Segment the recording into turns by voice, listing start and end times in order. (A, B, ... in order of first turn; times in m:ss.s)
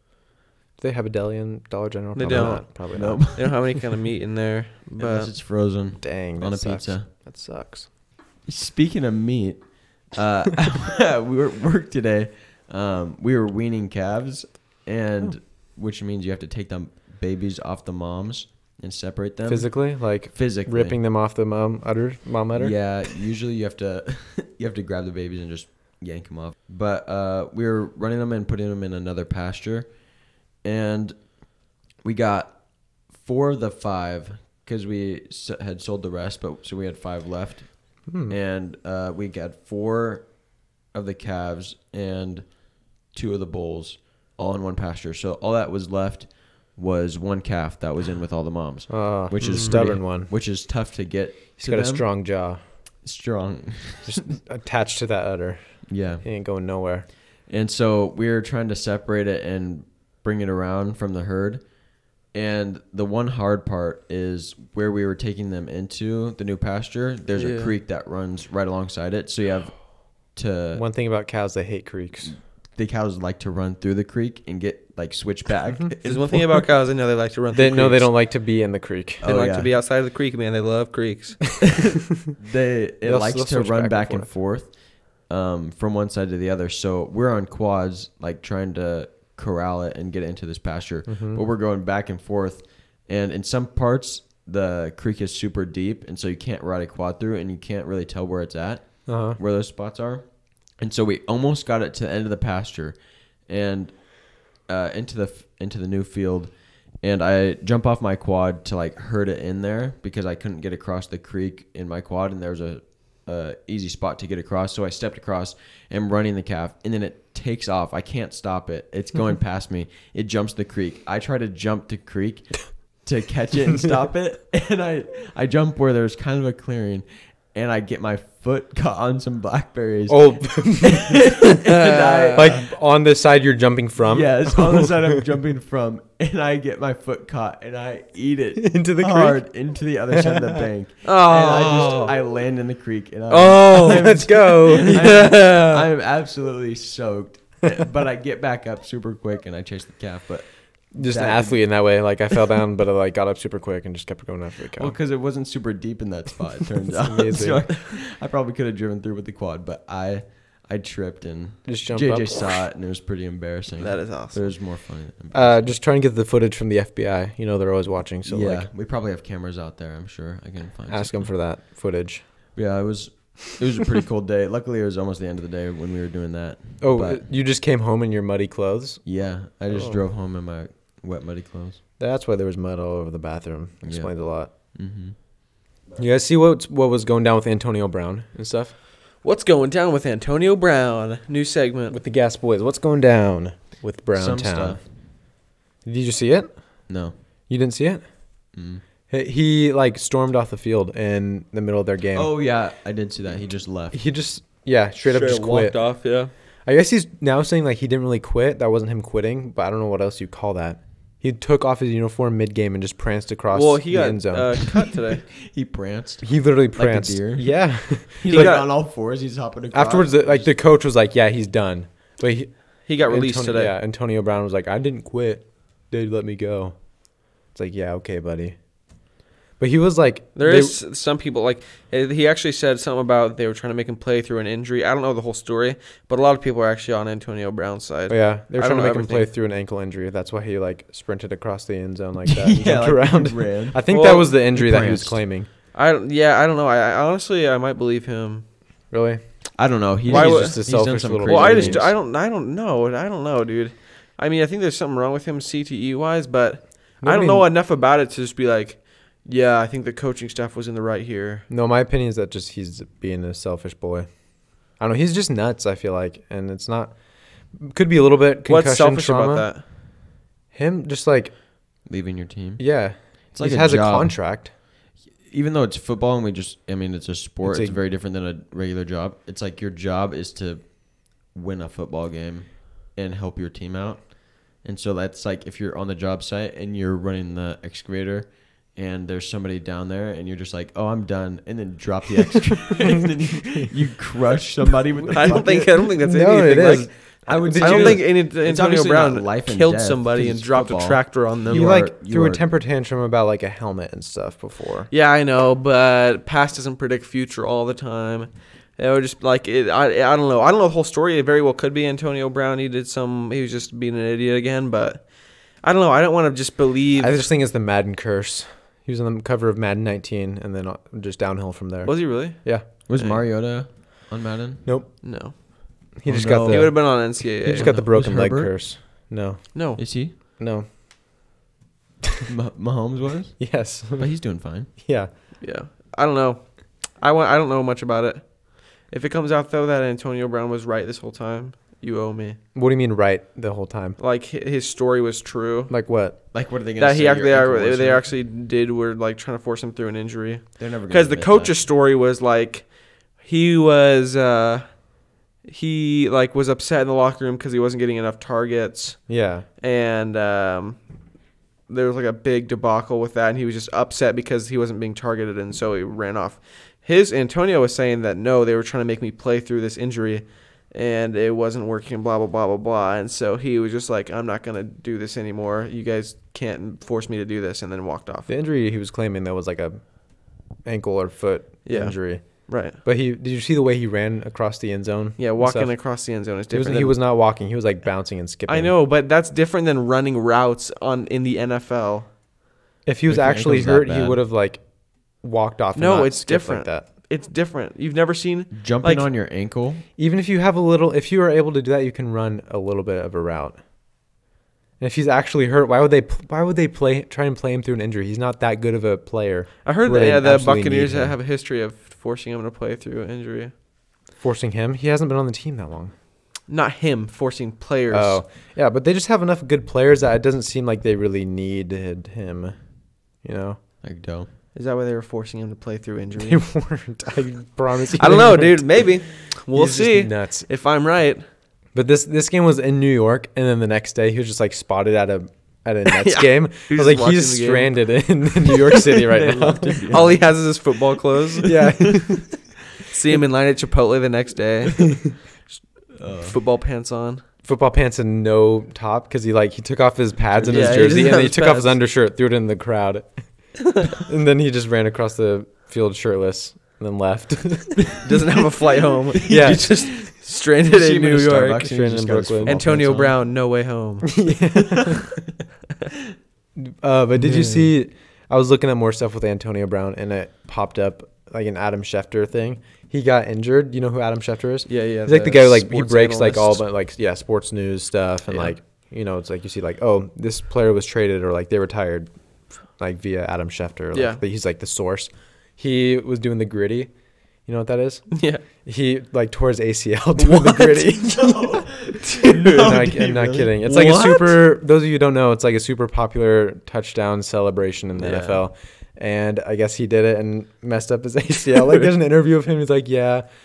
0:00.8-0:03.4 A
0:02.1-0:05.3 B
0:02.2-0:03.8 C
0:05.0-0:07.1 C
0:06.0-0:07.9 A
0:08.5-0:21.0 C
0:19.5-0:22.9 A
0:22.6-0:30.0 C
0:30.6-0:31.2 C
0:32.0-0:32.6 C
0:33.1-0:40.3 C
0:38.1-0:38.4 A
0:40.9-0:42.6 C
0:43.1-0:52.1 C
0:48.9-0:50.3 A
0:49.4-0:49.8 B
0:51.6-0:52.6 A
0:53.0-0:54.2 C
0:54.0-0:57.1 A
0:55.9-0:56.2 C
0:57.5-1:01.7 C
1:02.3-1:10.8 C
1:07.4-1:07.7 B
1:10.8-1:12.4 A
1:12.3-1:16.6 C
1:16.0-1:18.1 B
1:17.5-1:19.2 A
1:19.2-1:19.7 C
1:19.2-1:21.8 B
1:22.4-2:12.7 C
1:23.0-1:24.3 A
1:31.1-1:31.4 A
1:39.1-1:39.4 A
2:10.1-2:11.3 A
2:11.6-2:12.6 B
2:12.3-2:15.2 A
2:14.0-2:31.6 C
2:18.6-2:19.4 A
2:20.2-2:20.7 A
2:21.0-2:22.1 B
2:23.3-2:25.8 B
2:23.7-2:25.1 A
2:31.0-2:35.0 A
2:34.8-2:45.8 C
2:36.9-2:37.6 A
2:41.7-2:42.6 A
2:43.8-2:44.5 B
2:45.3-2:48.7 A
2:48.3-2:51.3 C
2:50.9-2:52.3 A
2:52.6-2:57.3 C
2:56.8-2:59.0 A
2:59.0-3:01.8 C
2:59.7-3:00.0 A
3:02.0-3:04.5 A
3:03.8-3:04.1 C
3:04.7-3:05.2 C
3:06.0-3:08.7 A
3:09.2-3:12.0 B
3:11.9-3:14.8 A
3:14.1-3:14.8 C
3:15.8-3:16.6 A
3:16.9-3:17.2 C
3:17.5-3:18.0 A
3:18.5-3:18.8 C
3:19.1-3:22.3 A
3:22.1-3:24.0 C
3:23.9-3:25.9 A
3:25.0-3:26.3 B
3:26.7-3:34.6 A
3:33.5-3:35.2 B
3:35.4-3:37.6 C
3:36.2-3:38.6 A
3:38.2-3:40.5 C
3:38.3-3:38.7 B
3:39.7-3:46.8 A
3:42.9-3:43.7 B
3:47.5-3:48.6 A
3:49.6-3:50.8 A
3:50.4-3:59.3 B
3:58.1-4:05.5 A
4:02.3-4:05.2 C
4:03.9-4:04.3 B
4:05.7-4:08.4 B
4:08.9-4:09.2 A
4:09.6-4:11.9 C
4:10.0-4:11.9 A
4:10.1-4:10.6 B
4:11.2-4:21.4 B
4:17.0-4:17.5 A
4:21.5-4:24.1 A
4:24.8-4:27.0 A
4:27.5-4:29.5 A
4:28.5-4:29.6 B
4:30.5-4:31.3 A
4:31.9-4:32.7 C
4:32.6-4:34.5 A
4:33.3-4:34.2 C
4:35.3-4:55.9 C
4:37.4-4:37.8 A
4:55.1-5:01.8 B
4:56.0-4:58.1 A
4:57.2-5:02.4 C
5:01.5-5:04.9 A
5:04.9-5:17.3 B
5:17.0-5:22.7 A
5:21.8-5:23.2 B
5:22.9-5:24.6 C
5:24.6-5:25.4 A
5:25.0-5:25.4 B
5:26.0-5:29.8 A
5:26.1-5:26.8 C
5:26.5-5:27.8 B
5:27.5-5:28.5 C
5:29.5-5:29.8 B
5:29.8-5:30.2 C
5:30.4-5:30.7 A
5:32.3-5:34.7 C
5:33.4-5:34.1 A
5:34.8-5:35.1 A
5:35.4-5:42.4 B
5:42.6-5:44.0 A
5:44.0-5:45.7 B
5:45.7-5:46.2 A
5:46.3-5:48.1 C
5:46.8-5:54.9 B
5:50.6-5:51.6 C
5:55.4-5:59.1 B
5:59.1-5:59.5 A
5:59.6-6:00.9 B
6:01.7-6:18.3 B
6:18.3-6:20.1 A
6:20.6-6:25.8 A
6:21.6-6:22.8 B
6:25.2-6:27.0 B
6:26.5-6:28.7 A
6:28.5-6:32.1 B
6:32.9-6:36.9 A
6:33.1-6:34.2 C
6:35.8-6:39.1 B
6:38.5-6:39.8 C
6:40.0-6:43.6 A
6:44.8-6:51.2 A
6:49.6-6:53.5 B
6:54.2-6:55.9 A
6:56.5-6:58.2 B
6:57.9-7:02.6 A
7:03.2-7:03.6 A
7:03.8-7:04.3 C
7:04.6-7:06.4 B
7:06.2-7:08.9 A
7:08.0-7:11.2 B
7:09.5-7:10.5 A
7:11.8-7:19.9 A
7:15.9-7:17.8 B
7:18.9-7:20.3 C
7:19.9-7:21.5 B
7:21.4-7:22.3 A
7:21.5-7:22.0 C
7:22.9-7:25.0 B
7:26.0-7:26.4 C
7:26.2-7:27.2 B
7:27.4-7:38.0 A
7:30.4-7:31.1 C
7:30.5-7:31.8 B
7:38.0-7:41.6 B
7:39.2-7:43.2 C
7:39.3-7:39.9 A
7:41.6-7:42.6 A
7:42.4-7:44.1 B
7:44.1-7:45.1 A
7:46.6-8:02.1 A
7:47.2-7:47.7 B
7:54.7-7:56.6 B
7:58.3-7:58.6 B
8:02.8-8:06.9 A
8:03.9-8:04.2 B
8:07.5-8:11.8 A
8:08.1-8:08.4 B
8:10.2-8:10.9 B
8:11.2-8:13.5 C
8:12.0-8:12.7 B
8:12.4-8:23.2 A
8:13.6-8:14.4 B
8:18.0-8:18.4 B
8:21.6-8:21.9 B